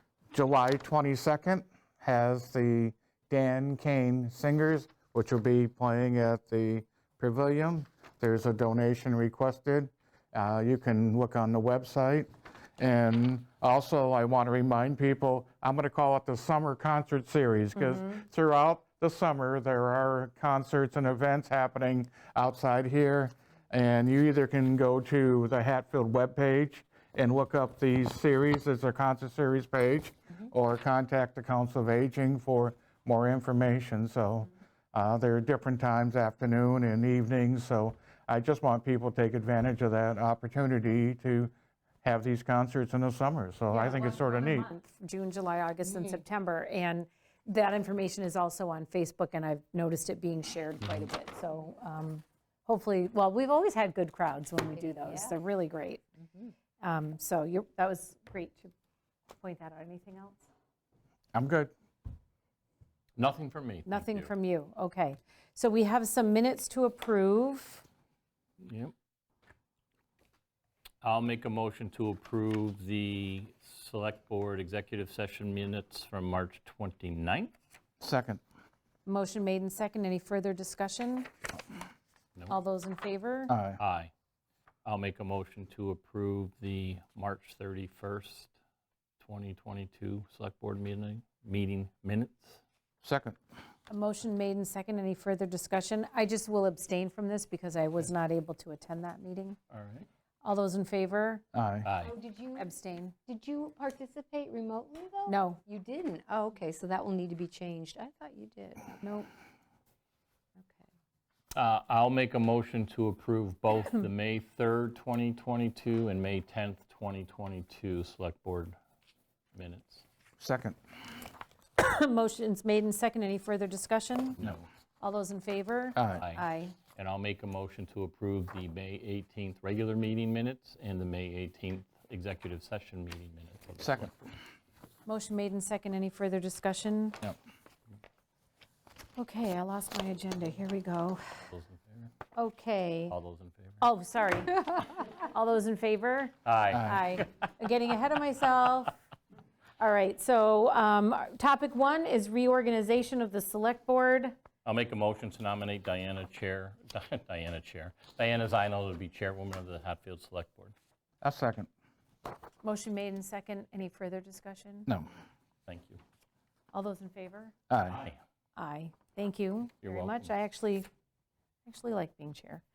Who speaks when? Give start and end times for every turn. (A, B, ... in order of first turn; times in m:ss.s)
0:00.3-0:41.5 A
0:17.8-0:18.1 B
0:42.0-0:44.7 A
0:43.7-0:56.0 B
0:50.8-0:51.1 C
0:54.8-0:55.4 D
0:56.8-0:58.7 B
0:59.4-1:00.5 B
1:01.3-1:01.7 A
1:03.2-1:04.3 C
1:03.9-1:07.8 B
1:08.6-1:08.9 C
1:11.0-1:17.5 C
1:18.0-1:18.4 A
1:19.0-1:21.3 B
1:22.5-1:23.6 B
1:23.5-1:23.8 A
1:23.8-1:24.1 C
1:24.8-1:28.5 C
1:29.2-1:32.6 C
1:33.0-1:33.4 A
1:33.9-1:39.6 B
1:39.7-1:40.1 C
1:40.4-1:41.4 B
1:41.5-1:41.9 A
1:41.8-1:42.2 C
1:42.0-1:42.7 D
1:42.6-1:43.2 B
1:43.2-1:49.3 D
1:45.3-1:45.6 B
1:51.5-1:58.8 C
1:59.5-2:00.0 C
2:00.4-2:00.8 A
2:01.8-2:04.4 B
2:04.4-2:04.7 C
2:05.0-2:06.8 B
2:06.0-2:06.2 A
2:06.2-2:14.2 C
2:13.8-2:14.1 A
2:15.1-2:17.2 B
2:19.2-2:21.4 B
2:21.5-2:22.1 C
2:22.3-2:23.2 B
2:23.1-2:23.9 C
2:23.8-2:29.0 B
2:26.4-2:27.1 C
2:26.7-2:27.0 A
2:29.8-2:34.4 B
2:34.6-2:40.7 C
2:41.2-2:41.7 A
2:42.6-2:44.9 B
2:45.7-2:46.0 C
2:46.7-2:47.5 B
2:47.7-2:48.1 A
2:48.6-2:50.9 B
2:49.8-2:50.3 C
2:51.7-2:52.6 B